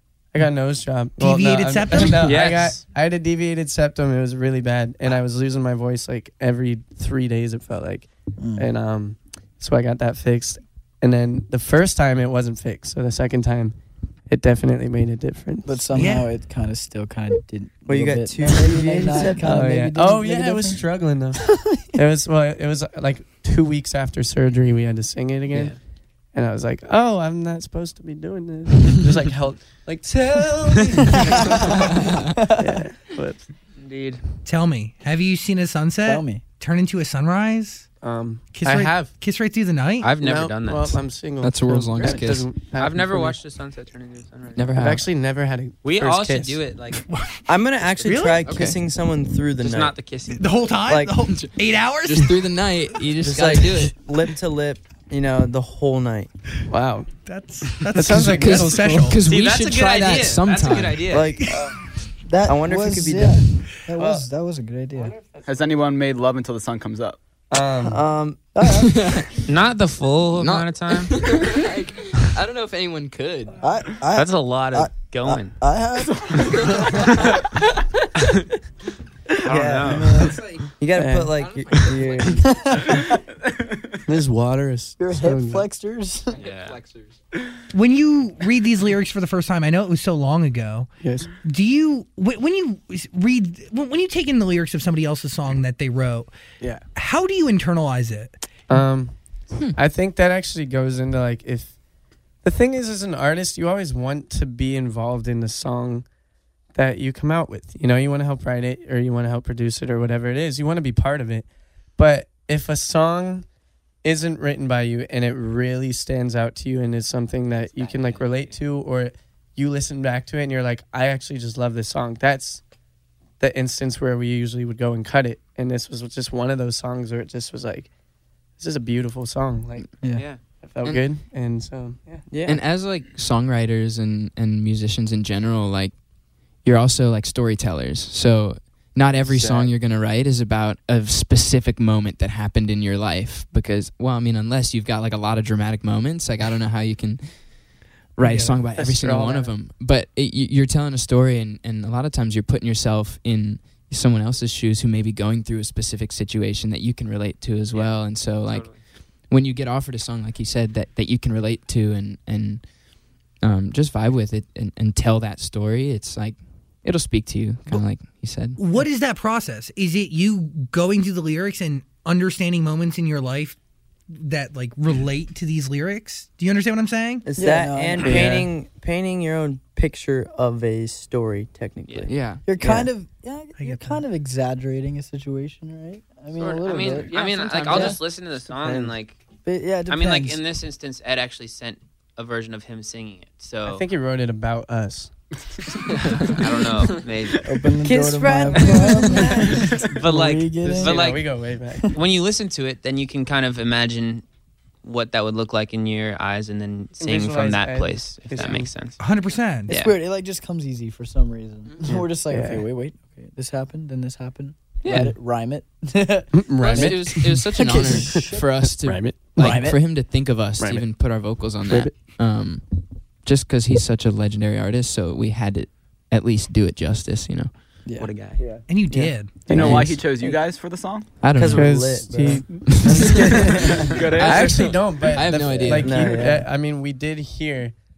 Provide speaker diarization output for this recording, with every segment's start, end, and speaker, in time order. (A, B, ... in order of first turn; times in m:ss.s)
0:00.3-0:13.8 A
0:01.2-0:02.4 B
0:02.2-0:02.8 C
0:08.4-0:08.7 D
0:14.3-0:16.0 A
0:15.6-0:20.8 D
0:15.9-0:16.3 B
0:17.9-0:19.7 E
0:19.4-0:25.8 A
0:21.5-0:21.8 D
0:25.5-0:25.8 C
0:26.3-0:33.4 A
0:31.8-0:32.3 F
0:32.3-0:32.8 D
0:33.8-0:34.2 C
0:34.4-0:37.9 B
0:36.0-0:36.4 D
0:38.0-0:39.1 A
0:38.5-0:40.1 B
0:40.0-0:41.0 C
0:40.2-0:43.4 A
0:41.4-0:42.5 F
0:42.7-0:44.7 C
0:44.6-0:45.1 F
0:44.7-0:46.6 A
0:45.8-0:47.0 C
0:47.1-0:47.4 B
0:47.5-0:50.0 E
0:48.0-0:48.4 B
0:48.4-0:48.8 F
0:49.6-0:50.6 C
0:50.3-0:52.4 B
0:50.8-0:51.2 E
0:51.2-0:51.5 F
0:52.0-0:54.0 F
0:53.2-0:56.3 E
0:56.7-0:57.1 A
0:57.2-0:59.2 B
0:57.9-0:59.2 A
0:58.0-1:01.1 F
0:59.2-1:01.3 C
1:01.1-1:01.6 E
1:01.5-1:01.7 A
1:02.2-1:05.1 D
1:02.4-1:03.4 E
1:04.0-1:04.2 A
1:04.9-1:05.8 A
1:05.4-1:07.2 G
1:07.5-1:08.0 A
1:07.8-1:08.4 E
1:08.5-1:09.2 D
1:08.6-1:09.4 F
1:09.5-1:11.1 C
1:10.4-1:13.6 F
1:13.6-1:16.7 D
1:14.1-1:15.6 C
1:16.4-1:17.4 F
1:19.4-1:20.4 C
1:19.5-1:22.5 E
1:19.9-1:20.4 D
1:20.9-1:22.0 A
1:21.4-1:22.4 F
1:22.5-1:23.1 D
1:24.0-1:25.6 A
1:25.0-1:26.4 D
1:26.4-1:26.8 C
1:26.4-1:27.1 F
1:27.7-1:30.9 B
1:31.0-1:31.3 A
1:31.4-1:36.3 B
1:36.9-1:38.3 B
1:38.7-1:41.8 A
1:42.4-1:46.1 A
1:46.7-1:53.5 A
1:54.0-2:02.6 A
1:57.7-1:58.6 C
2:03.4-2:07.9 A
2:08.6-2:09.9 A
2:10.0-2:10.3 D
2:10.1-2:10.4 C
2:10.6-2:12.3 A
2:10.8-2:11.1 F
2:12.3-2:12.6 E
2:12.4-2:16.0 F
2:16.6-2:27.5 F
2:19.2-2:19.7 A
2:28.1-2:38.8 F
2:28.2-2:28.5 B
2:28.7-2:29.5 A
2:37.7-2:38.8 C
2:39.3-2:42.6 F
2:43.4-2:48.6 F
2:48.6-2:53.6 B
2:54.1-2:57.2 B
2:57.2-3:02.9 E
2:57.4-2:58.2 D
2:58.0-2:58.5 A
3:02.1-3:02.5 F
3:02.4-3:08.0 D
3:03.6-3:04.0 B
3:06.3-3:09.2 C
3:07.0-3:08.0 F
3:08.6-3:08.9 A
3:09.4-3:10.4 D
3:09.9-3:13.8 C
3:13.6-3:15.1 A
3:15.9-3:16.4 F
3:16.2-3:17.5 C
3:17.4-3:21.1 D
3:17.8-3:19.5 E
3:18.5-3:21.3 C
3:20.6-3:21.9 A
3:21.9-3:24.2 C
3:24.8-3:29.0 C
3:27.0-3:28.7 A
3:29.0-3:29.7 B
3:29.7-3:29.9 C
3:29.7-3:38.4 D
3:31.8-3:32.6 A
3:36.3-3:39.7 A
3:36.6-3:47.5 F
3:39.4-3:39.8 D
3:40.6-3:40.9 A
3:41.6-3:42.0 A
3:47.8-3:48.6 D
3:48.0-3:48.4 C
3:48.7-3:49.3 B
3:48.9-3:49.9 A
3:49.0-3:50.4 E
3:49.5-3:51.2 G
3:49.5-3:50.0 F
3:51.2-3:52.0 F
3:51.3-3:53.9 E
3:51.5-3:57.8 A
3:52.5-3:53.4 F
3:53.8-3:54.8 G
3:54.1-3:56.2 F
3:55.4-3:56.5 E